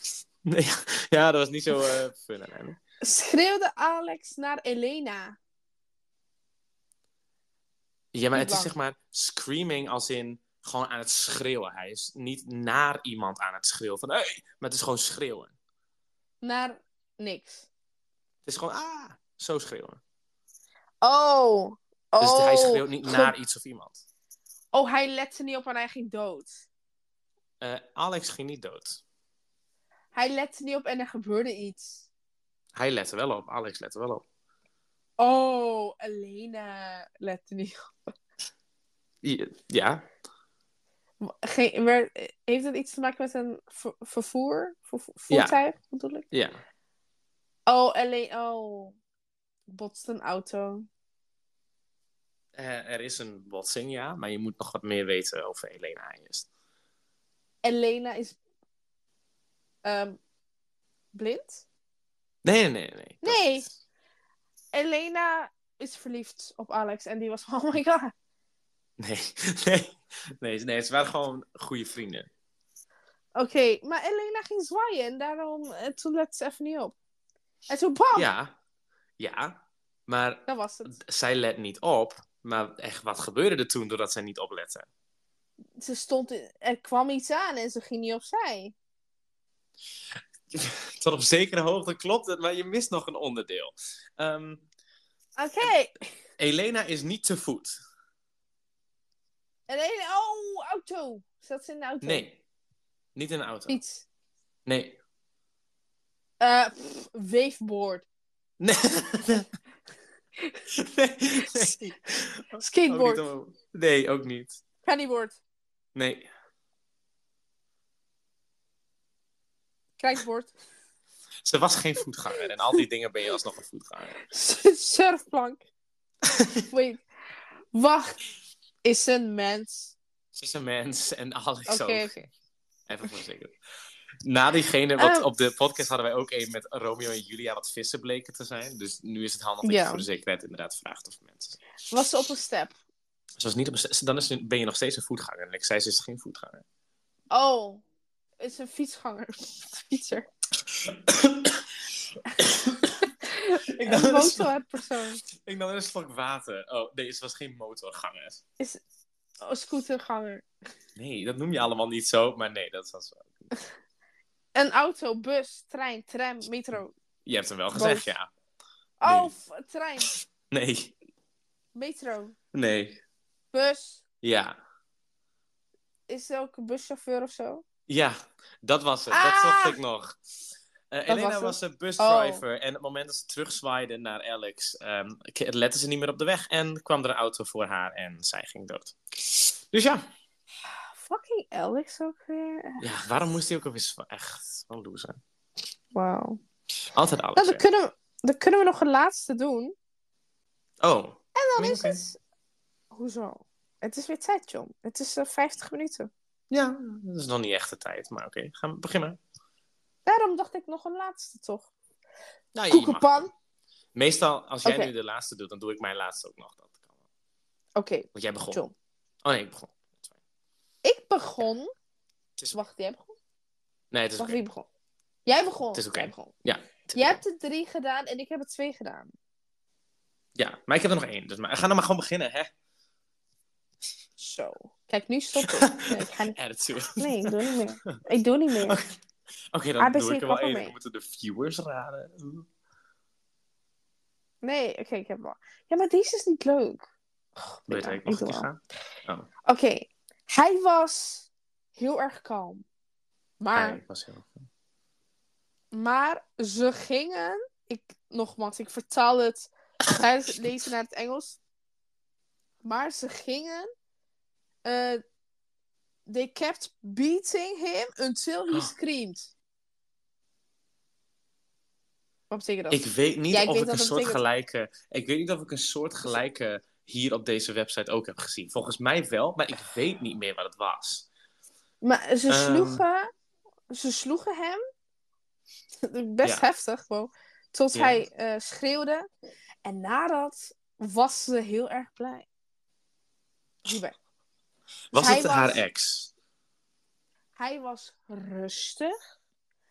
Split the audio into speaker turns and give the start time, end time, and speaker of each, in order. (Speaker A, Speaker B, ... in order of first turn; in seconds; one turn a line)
Speaker A: 0.5-2.8
Speaker B: 3.0-5.4
Speaker A: 8.1-15.6
Speaker B: 8.3-8.7
Speaker B: 16.4-17.7
Speaker A: 18.4-20.0
Speaker B: 21.0-23.3
Speaker A: 22.2-24.0
Speaker B: 24.7-26.6
Speaker A: 27.6-29.0
Speaker B: 30.1-32.1
Speaker A: 32.8-34.2
Speaker B: 35.2-37.9
Speaker A: 39.2-40.0
Speaker B: 41.2-46.3
Speaker A: 45.3-45.6
Speaker A: 46.3-46.6
Speaker B: 47.7-49.0
Speaker B: 49.7-50.9
Speaker A: 52.5-56.5
Speaker B: 57.6-58.4
Speaker B: 59.8-60.2
Speaker B: 61.1-61.6
Speaker A: 62.4-63.5
Speaker B: 63.2-63.7
Speaker B: 64.7-68.1
Speaker A: 69.0-72.3
Speaker B: 73.4-77.0
Speaker B: 77.7-78.3
Speaker A: 78.1-78.5
Speaker A: 79.2-84.9
Speaker B: 80.5-80.9
Speaker B: 85.8-88.8
Speaker A: 90.5-94.7
Speaker B: 95.4-96.0
Speaker A: 96.4-97.8
Speaker B: 99.7-102.2
Speaker A: 102.0-102.4
Speaker A: 103.1-103.8
Speaker B: 103.7-104.0
Speaker A: 104.7-105.0
Speaker B: 106.4-108.1
Speaker A: 108.6-109.5
Speaker A: 110.7-114.6
Speaker B: 111.5-111.8
Speaker B: 112.6-113.3
Speaker B: 114.8-115.4
Speaker A: 116.0-116.3
Speaker B: 120.0-120.5
Speaker A: 121.5-124.2
Speaker B: 124.2-125.7
Speaker A: 126.2-126.7
Speaker B: 126.7-127.0
Speaker B: 127.7-128.2
Speaker B: 128.8-130.0
Speaker A: 130.3-132.1
Speaker B: 131.7-132.3
Speaker A: 132.9-133.5
Speaker A: 134.2-141.6
Speaker B: 135.0-135.3
Speaker B: 139.6-140.1
Speaker B: 141.9-142.8
Speaker A: 143.4-146.6
Speaker B: 147.3-147.8
Speaker B: 148.4-150.3
Speaker A: 150.7-151.8
Speaker A: 152.4-153.1
Speaker B: 153.3-155.2
Speaker A: 153.8-154.5
Speaker A: 155.3-158.4
Speaker B: 159.4-160.5
Speaker A: 161.0-163.5
Speaker B: 164.6-166.9
Speaker A: 167.3-168.3
Speaker B: 167.7-168.1
Speaker B: 169.0-170.1
Speaker A: 169.1-169.3
Speaker A: 170.1-171.0
Speaker B: 171.8-172.4
Speaker A: 172.5-173.0
Speaker B: 173.5-174.0
Speaker A: 174.2-174.6
Speaker B: 176.1-177.6
Speaker A: 177.9-180.2
Speaker B: 179.1-179.8
Speaker A: 180.9-190.0
Speaker B: 181.1-182.4
Speaker B: 190.6-192.8
Speaker A: 192.8-195.2
Speaker B: 195.9-196.4
Speaker A: 196.9-197.6
Speaker B: 197.4-199.7
Speaker A: 200.8-202.0
Speaker B: 201.3-202.2
Speaker B: 202.9-206.1
Speaker A: 206.5-209.2
Speaker B: 210.1-211.7
Speaker A: 212.6-213.3
Speaker B: 212.7-213.3
Speaker A: 213.9-216.8
Speaker B: 214.6-214.9
Speaker B: 217.8-218.7
Speaker A: 218.1-218.6
Speaker A: 219.2-220.1
Speaker B: 220.8-221.7
Speaker B: 222.5-223.2
Speaker A: 223.9-224.4
Speaker B: 224.2-224.7
Speaker B: 225.3-226.3
Speaker A: 225.7-227.2
Speaker B: 227.0-229.1
Speaker A: 230.4-232.5
Speaker B: 234.2-236.4
Speaker A: 235.4-237.3
Speaker B: 237.0-238.8
Speaker A: 238.6-238.9
Speaker A: 239.5-242.5
Speaker B: 239.8-240.7
Speaker B: 244.4-248.5
Speaker A: 247.7-249.3
Speaker B: 249.5-252.6
Speaker B: 253.4-253.8
Speaker A: 253.5-254.5
Speaker B: 255.7-261.4
Speaker B: 262.6-263.7
Speaker B: 264.6-265.0
Speaker B: 266.1-269.3
Speaker B: 272.3-274.2
Speaker A: 272.7-281.1
Speaker B: 281.8-283.1
Speaker A: 282.3-282.8
Speaker B: 283.7-284.6
Speaker B: 285.8-289.1
Speaker A: 287.7-288.0
Speaker B: 289.6-292.3
Speaker B: 293.7-294.0
Speaker A: 294.9-296.1
Speaker B: 294.9-295.6
Speaker B: 297.4-298.9